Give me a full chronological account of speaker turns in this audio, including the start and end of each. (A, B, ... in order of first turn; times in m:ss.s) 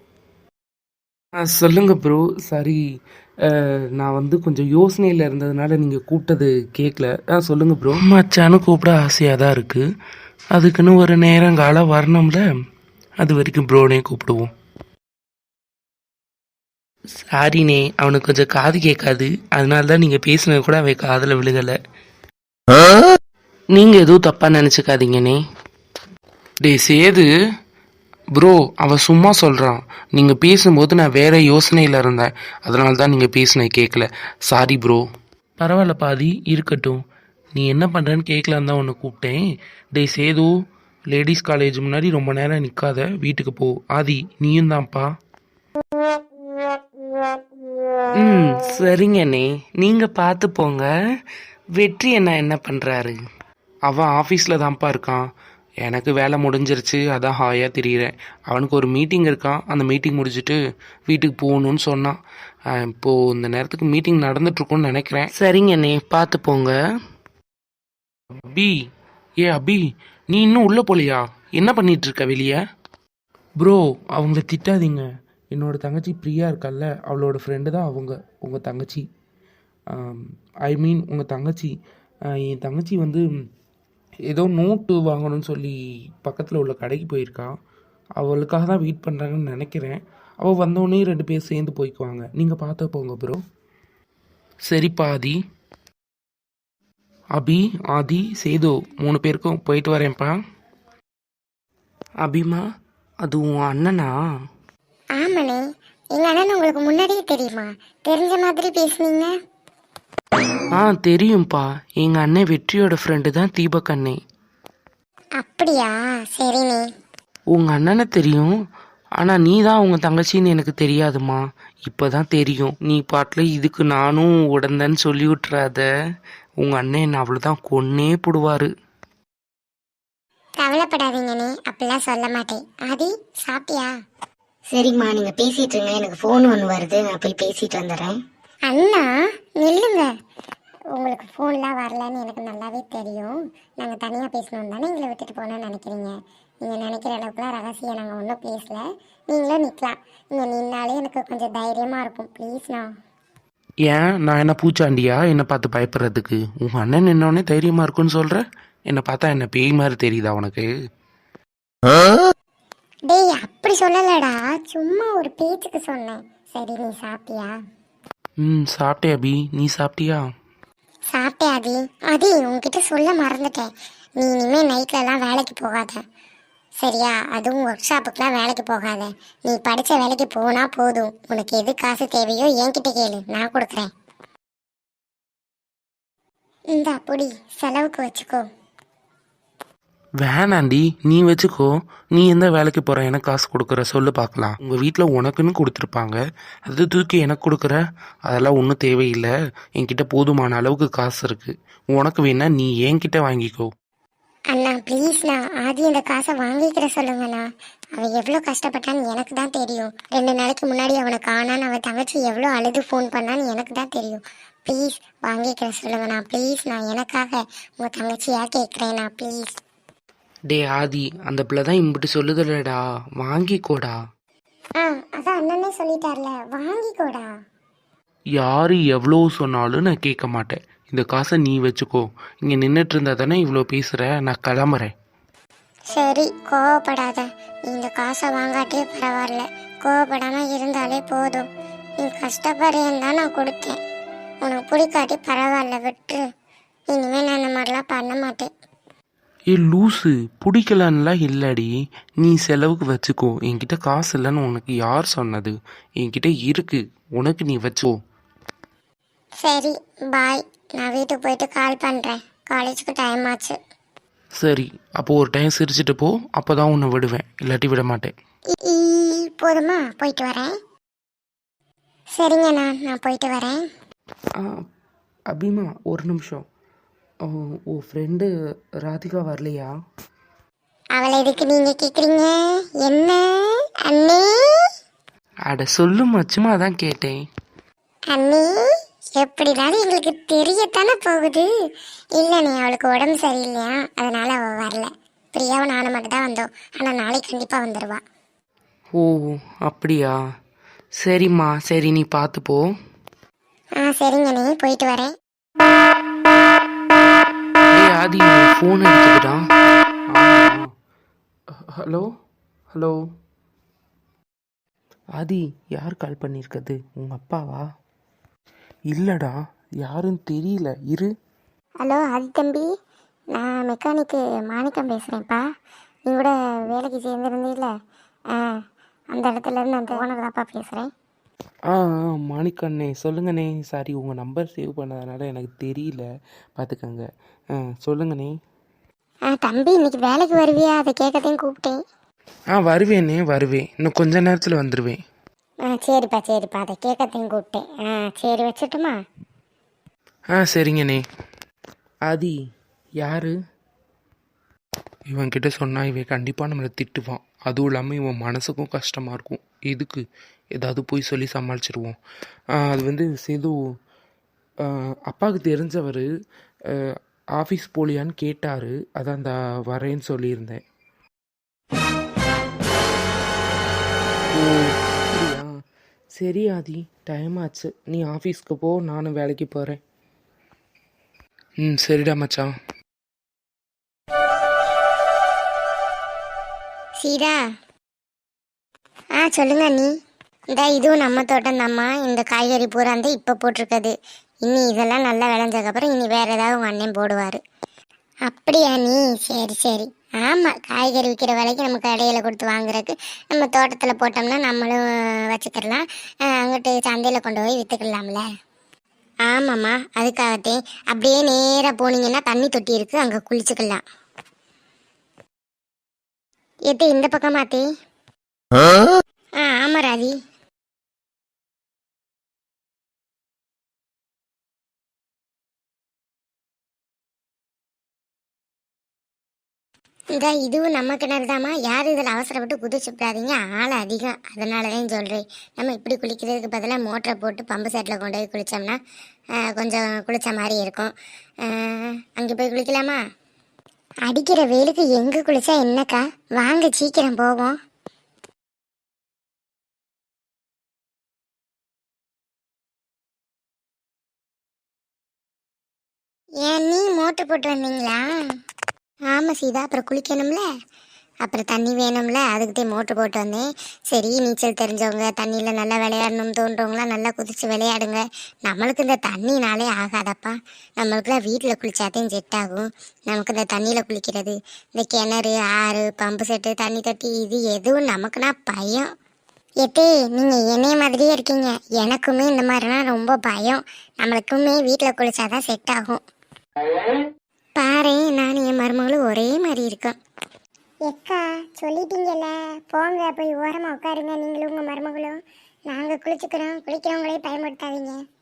0:01.4-0:02.8 A
0:03.4-0:09.8 A
0:10.5-0:12.4 A
0:13.2-0:14.5 A
0:17.3-0:21.8 A
0:23.7-0:25.4 A
0:26.6-0:27.3 A
0:28.4-0:35.0 A
0:35.6-0:37.0 A
0:37.6-0:39.4 A
0:40.0-0:40.5 A
0:41.1-0:45.1 A
0:48.2-0:50.9 A
0:51.8-0:53.2 A
0:53.9-0:55.2 A
0:55.8-1:02.2 A
1:02.7-1:06.7 A
1:09.4-1:12.6 A
1:13.6-1:19.1 A
1:19.9-1:21.7 A
1:22.3-1:23.2 A
1:24.3-1:27.5 A
1:28.2-1:33.4 A
1:34.7-1:35.4 A
1:37.4-1:40.3 A
1:42.2-1:42.6 A
1:43.2-1:44.1 A
1:45.2-1:45.6 B
1:46.1-1:49.3 B
1:50.8-1:54.2 A
1:55.4-1:56.8 B
1:57.5-1:58.5 A
1:59.2-2:05.9 A
2:06.6-2:08.7 A
2:10.6-2:13.9 B
2:14.7-2:18.1 C
2:15.3-2:15.7 B
2:17.0-2:17.7 B
2:18.7-2:20.1 B
2:20.9-2:32.9 B
2:33.9-2:40.7 A
2:43.1-2:47.5 B
2:48.4-2:50.3 A
2:51.1-2:56.0 B
2:56.8-3:03.9 B
3:06.7-3:08.5 B
3:10.2-3:23.7 A
3:24.5-3:39.5 B
3:40.5-3:44.0 A
3:44.8-3:47.3 B
3:48.4-3:54.9 A
3:55.9-4:01.5 B
4:02.0-4:03.8 B
4:04.4-4:06.2 B
4:06.9-4:08.5 B
4:09.5-4:18.0 A
4:19.4-4:23.6 B
4:24.4-4:28.1 A
4:28.6-4:30.5 B
4:32.2-4:33.6 B
4:34.4-4:34.6 A
4:35.3-4:36.4 A
4:37.3-4:38.3 A
4:38.8-4:39.7 A
4:41.0-4:44.7 B
4:45.5-4:47.2 A
4:48.1-4:51.5 B
4:52.2-4:58.0 B
4:59.0-5:00.2 A
5:01.0-5:02.7 A
5:03.8-5:05.1 B
5:07.7-5:09.4 A
5:10.1-5:10.7 A
5:11.8-5:12.1 A
5:15.2-5:17.6 A
5:18.9-5:21.1 A
5:21.8-5:22.7 B
5:23.3-5:25.4 B
5:26.1-5:27.7 B
5:28.3-5:28.6 B
5:29.1-5:30.9 B
5:31.7-5:36.1 A
5:36.6-5:37.0 A
5:37.6-5:38.3 A
5:39.3-5:41.8 B
5:42.5-5:45.0 A
5:45.6-5:49.0 B
5:50.3-5:51.0 A
5:52.1-5:52.4 A
5:53.0-5:53.3 A
5:55.1-6:00.0 A
6:00.5-6:02.0 A
6:02.6-6:03.6 A
6:04.6-6:06.1 A
6:06.7-6:10.6 A
6:14.3-6:15.5 A
6:16.2-6:19.8 A
6:21.6-6:22.5 A
6:27.0-6:27.4 B
6:29.2-6:29.9 B
6:30.5-6:33.9 B
6:34.4-6:37.4 B
6:38.3-6:48.3 B
6:49.3-6:53.8 B
6:56.7-6:57.6 B
6:59.4-7:00.2 B
7:10.2-7:18.8 B
7:19.4-7:23.0 B
7:24.1-7:27.6 B
7:36.4-7:38.1 B
7:39.1-7:40.4 B
7:41.2-7:58.9 B
7:59.6-8:06.0 B
8:07.6-8:10.0 B
8:10.8-8:18.0 B